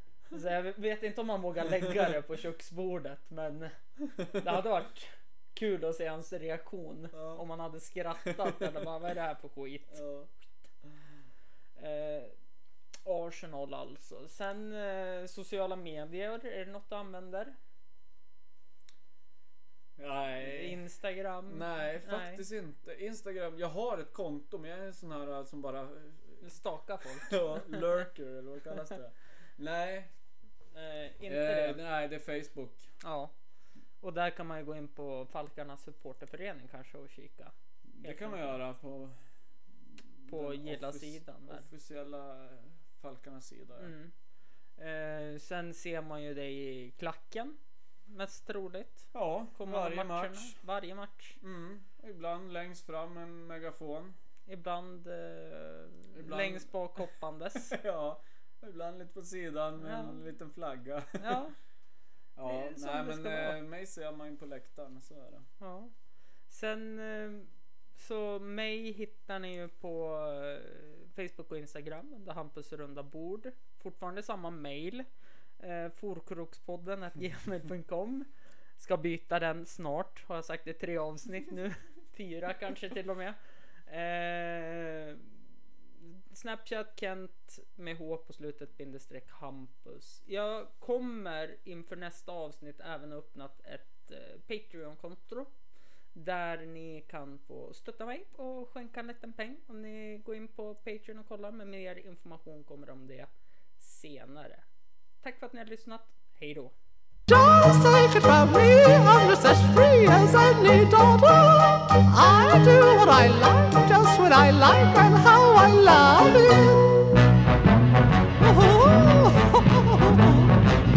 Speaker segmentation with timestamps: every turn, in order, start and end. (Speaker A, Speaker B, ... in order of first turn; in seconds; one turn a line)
Speaker A: 0.3-3.7
Speaker A: 4.3-10.0
Speaker B: 7.1-7.4
Speaker B: 8.2-8.7
Speaker B: 9.9-10.3
Speaker A: 11.8-12.3
Speaker A: 13.0-17.6
Speaker B: 20.0-20.8
Speaker A: 20.4-22.4
Speaker B: 21.5-26.5
Speaker A: 26.4-28.0
Speaker B: 27.0-30.1
Speaker A: 30.7-31.8
Speaker B: 31.2-32.9
Speaker A: 33.0-33.3
Speaker A: 34.0-38.5
Speaker B: 37.9-39.2
Speaker B: 39.8-43.9
Speaker A: 40.3-41.7
Speaker A: 43.8-44.1
Speaker A: 44.8-51.4
Speaker B: 49.1-50.6
Speaker B: 51.4-54.1
Speaker A: 54.5-57.8
Speaker B: 56.1-61.4
Speaker A: 59.8-60.2
Speaker A: 61.2-61.5
Speaker B: 62.4-65.5
Speaker A: 62.4-63.6
Speaker A: 65.6-65.9
Speaker A: 66.5-75.1
Speaker A: 75.6-85.4
Speaker A: 86.0-95.5
Speaker A: 96.1-104.6
Speaker A: 105.2-106.7
Speaker C: 107.3-117.0
Speaker C: 118.4-120.5